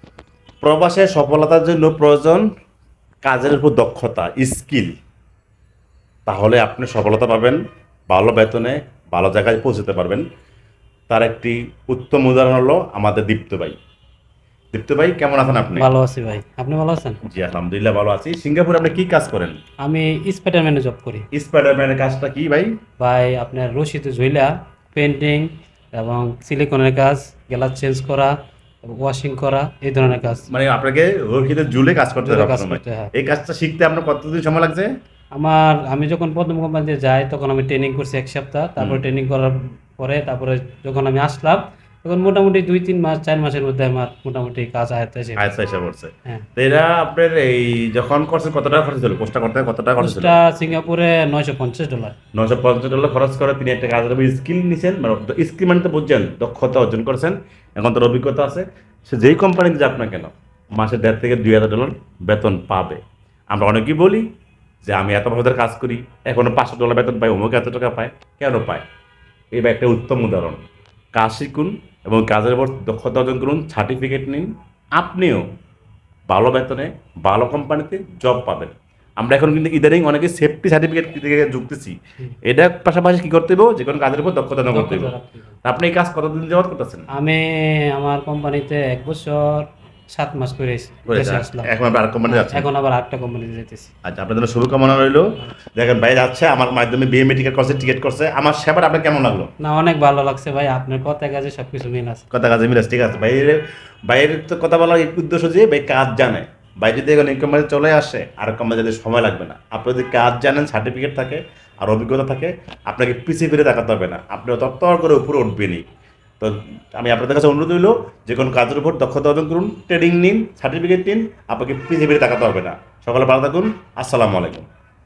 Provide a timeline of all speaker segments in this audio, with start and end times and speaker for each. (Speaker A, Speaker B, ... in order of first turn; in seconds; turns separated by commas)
Speaker A: 0.6-2.5, Speaker A: 3.2-4.9, Speaker A: 6.3-10.2, Speaker A: 11.1-13.8, Speaker A: 14.7-15.9, Speaker B: 15.8-17.2, Speaker A: 17.2-19.6, Speaker B: 19.8-21.3, Speaker A: 21.3-22.7, Speaker B: 23.0-28.3, Speaker B: 28.9-30.5, Speaker A: 30.2-34.9, Speaker B: 32.2-33.1, Speaker B: 35.3-45.4, Speaker A: 38.8-39.0, Speaker A: 45.4-50.4, Speaker B: 50.0-52.1, Speaker A: 52.3-63.0, Speaker A: 63.5-64.3, Speaker A: 64.8-68.8, Speaker A: 69.5-75.4, Speaker A: 76.3-85.1, Speaker B: 84.7-85.5, Speaker A: 85.7-87.1, Speaker B: 87.1-91.7, Speaker A: 91.1-92.7, Speaker B: 92.3-93.9, Speaker A: 94.0-99.5, Speaker B: 99.6-102.2, Speaker A: 102.3-115.8, Speaker A: 116.4-124.7